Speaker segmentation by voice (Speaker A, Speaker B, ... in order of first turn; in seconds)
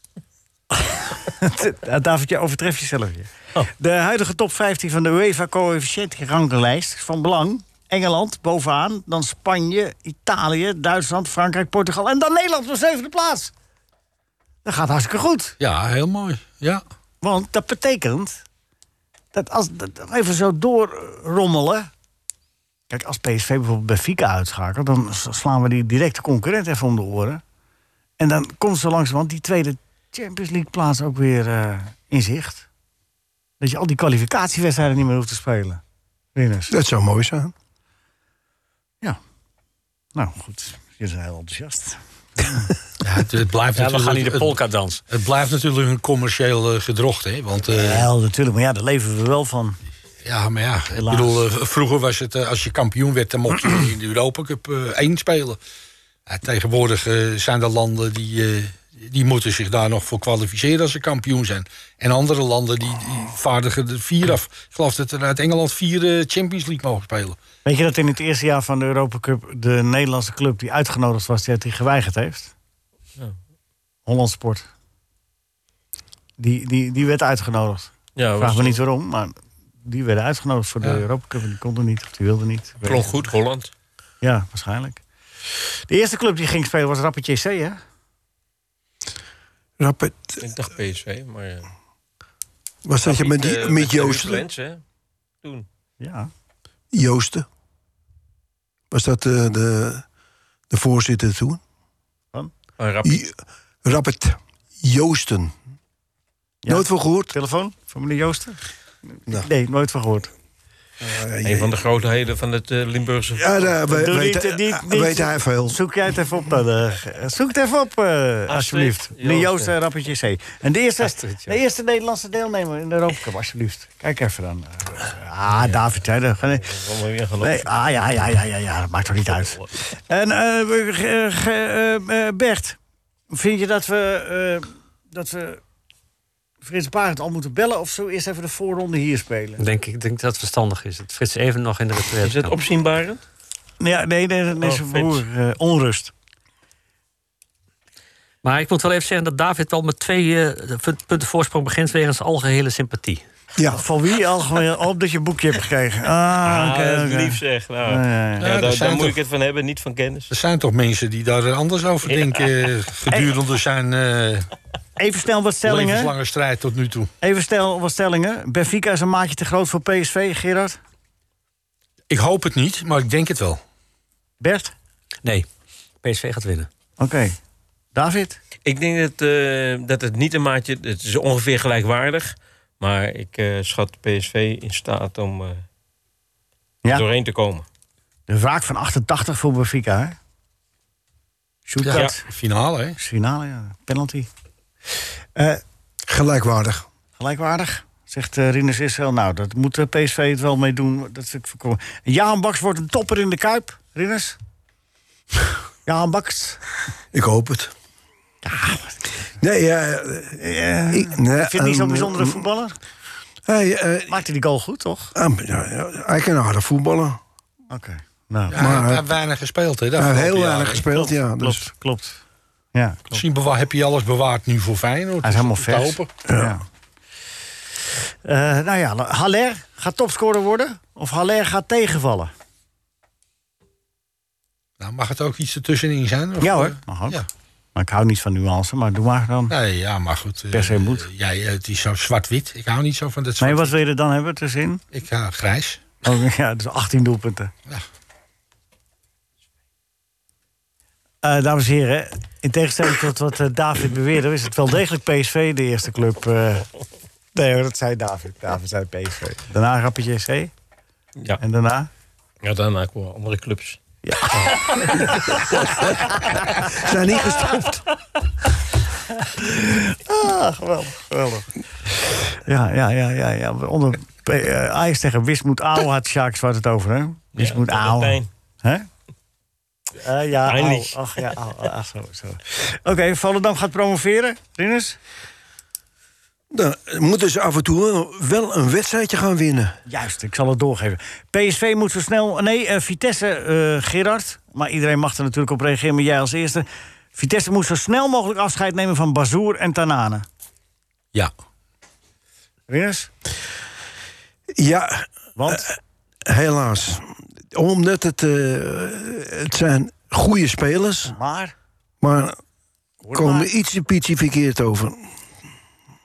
Speaker A: 0.7-13.5, 14.6-15.6, 17.2-18.4, 19.3-21.9, 22.9-27.4, 28.2-32.6, 33.6-35.8, 36.3-36.7, 40.1-42.7, 47.7-49.8, 50.9-51.5, 67.6-72.5, 74.0-74.7, 76.4-83.2, 84.2-85.0, 85.9-87.8, 96.0-96.3, 106.6-108.6, 109.3-110.3, 113.9-126.7, 127.4-132.8, 133.3-135.6, 136.6-139.6, 143.8-146.1, 153.7-158.5, 163.1-163.3, 165.0-166.1, 167.2-170.8, 174.4-174.7, 177.0-177.4, 177.9-178.4, 188.3-190.2, 191.7-192.2, 193.0-194.3, 195.3-195.6, 197.2-204.4, 205.8-206.6, 208.4-209.0, 210.4-212.8, 214.1-215.1, 217.7-218.7, 220.9-222.2, 222.7-223.2, 225.2-226.6, 228.2-232.3, 236.4-237.2, 237.7-239.5, 240.5-241.1, 243.4-244.8, 246.0-247.5, 251.2-256.7, 257.3-260.5, 261.4-261.9, 264.0-265.4, 269.2-271.5, 272.3-278.9, 280.0-285.0, 289.9-300.2, 302.7-303.1, 305.4-305.7, 311.1-311.5, 313.0-313.5
Speaker B: 15.6-16.8, 43.0-44.6, 45.1-48.1, 50.2-55.6, 56.3-67.4, 158.4-159.2, 160.3-164.5, 165.6-167.1, 172.1-173.6, 191.8-193.0, 218.5-220.8, 223.1-226.1, 234.8-237.3, 239.5-243.7, 244.9-245.8
Speaker C: 36.7-37.5, 89.8-90.4, 92.8-94.4, 96.9-97.5, 98.9-100.0, 100.7-101.6, 103.0-105.5, 106.7-107.3, 111.0-111.7, 113.4-115.8, 153.6-153.8, 196.1-196.9, 207.1-207.7, 209.4-212.4, 213.4-214.2, 215.1-217.2, 218.5-219.0, 219.9-221.7, 226.3-226.5, 266.6-267.8, 286.5-289.8, 304.6-305.8, 306.3-311.1, 312.0-312.4, 313.1-315.0
Speaker D: 43.7-45.0, 139.6-142.6, 148.4-153.2, 176.0-176.7
Speaker E: 78.2-78.8, 82.8-83.7, 90.4-91.7, 93.0-94.8, 102.8-103.2, 111.4-113.8, 118.5-119.7, 126.6-127.8, 142.2-143.2, 144.6-145.2, 156.4-160.3, 178.6-185.6, 186.9-187.7, 262.4-263.8, 264.3-265.4, 277.3-278.3, 280.4-281.0